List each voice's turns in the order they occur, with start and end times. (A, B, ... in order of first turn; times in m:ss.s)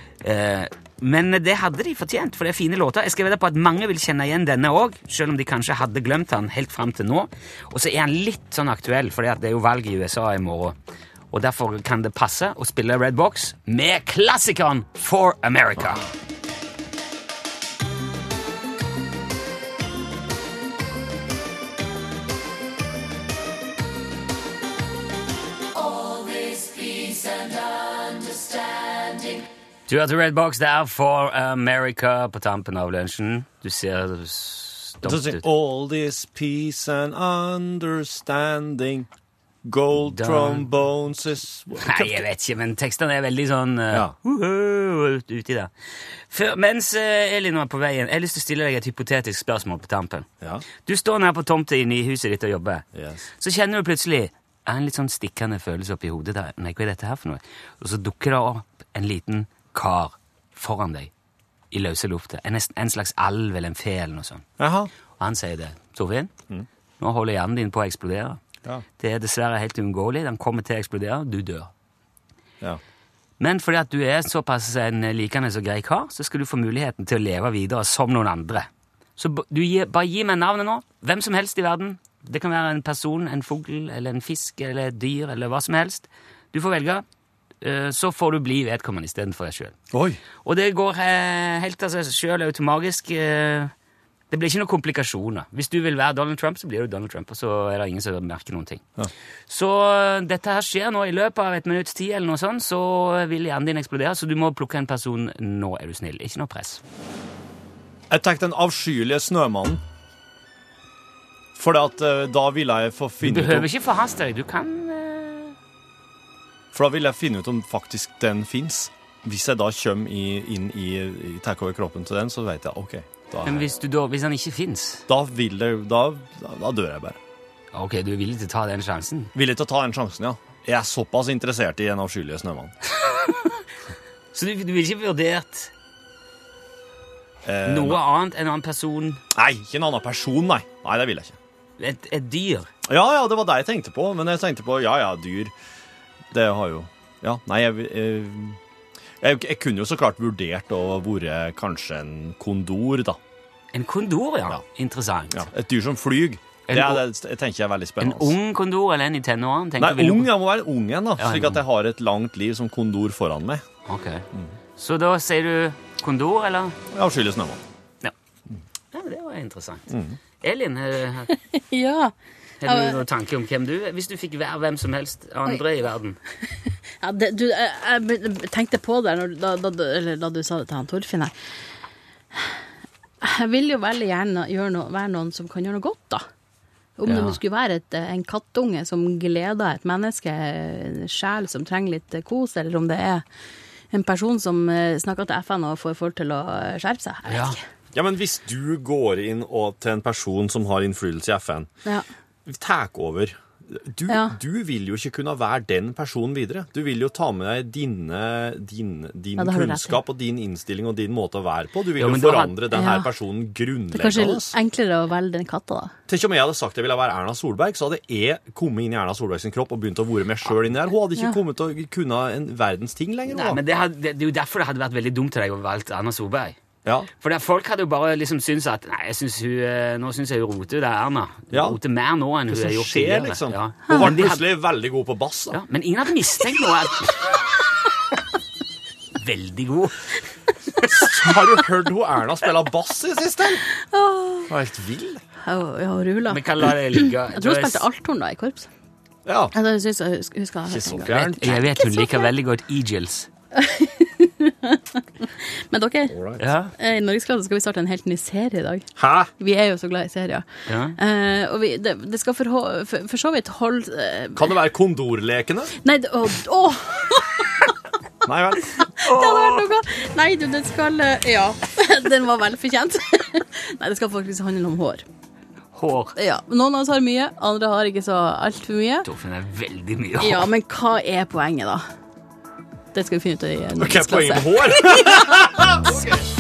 0:00.2-0:10.8 A
0:11.3-0:16.1 A
0:29.9-0:35.4 A
0:35.1-0:39.1 B
0:39.6-0:42.2 B
0:40.0-0:40.7 A
0:41.8-0:45.7 A
0:46.3-0:50.3 A
0:50.8-0:52.8 A
0:52.9-0:53.3 B
0:53.4-1:01.1 A
1:01.7-1:04.4 A
1:04.6-1:04.9 B
1:05.2-1:06.3 A
1:07.0-1:08.4 A
1:09.0-1:11.7 A
1:13.4-1:27.0 A
1:27.6-1:29.8 A
1:29.9-1:30.2 B
1:30.4-1:33.7 A
1:34.3-1:38.8 A
1:39.5-1:46.8 A
1:48.1-1:49.8 B
1:51.6-1:53.7 B
1:53.2-1:55.6 A
1:56.7-2:03.7 B
2:03.4-2:05.1 A
2:05.1-2:07.2 B
2:07.7-2:09.3 A
2:09.4-2:12.7 B
2:13.0-2:13.6 A
2:14.3-2:15.7 A
2:17.4-2:18.0 B
2:17.7-2:19.2 A
2:19.3-2:21.4 B
2:21.8-2:22.7 A
2:22.9-2:25.5 B
2:26.3-2:28.6 B
2:29.2-2:33.2 B
2:33.7-2:35.5 A
2:35.3-2:38.4 B
2:36.7-2:37.0 A
2:38.0-2:40.3 A
2:39.8-2:43.6 B
2:41.2-2:41.6 A
2:43.9-2:44.3 A
2:44.8-2:46.8 A
2:46.9-2:47.6 B
2:48.9-2:49.9 A
2:49.9-2:50.2 B
2:50.4-2:51.3 A
2:51.3-2:52.1 C
2:52.6-2:56.2 A
2:52.6-2:53.0 C
2:56.5-3:01.3 C
3:03.2-3:06.3 C
3:07.0-3:13.3 C
3:07.1-3:07.4 A
3:13.9-3:17.6 C
3:17.3-3:17.6 A
3:17.9-3:21.7 B
3:22.5-3:34.6 B
3:24.1-3:24.4 C
3:29.4-3:30.0 C
3:32.0-3:32.6 A
3:32.7-3:33.1 C
3:33.9-3:35.9 C
3:36.1-3:43.6 B
3:43.3-3:46.6 A
3:47.2-3:54.4 A
3:51.5-3:51.8 B
3:52.5-3:55.6 B
3:55.5-3:57.3 A
3:59.2-4:00.2 A
4:00.9-4:03.6 B
4:03.8-4:04.5 C
4:04.5-4:05.2 B
4:05.4-4:08.7 C
4:06.3-4:07.8 A
4:09.3-4:09.5 B
4:09.5-4:12.3 C
4:10.7-4:11.5 B
4:11.1-4:13.3 A
4:13.5-4:16.2 C
4:16.1-4:16.4 B
4:16.4-4:16.7 A
4:16.8-4:18.9 C
4:19.0-4:19.3 B
4:19.4-4:24.5 C
4:20.7-4:21.0 A
4:24.4-4:25.7 B
4:25.8-4:27.7 C
4:28.2-4:28.9 B
4:28.8-4:35.0 C
4:29.0-4:29.7 A
4:35.8-4:36.2 A
4:36.2-4:39.1 C
4:39.0-4:40.5 A
4:40.2-4:41.8 C
4:42.9-4:46.0 C
4:43.8-4:46.3 B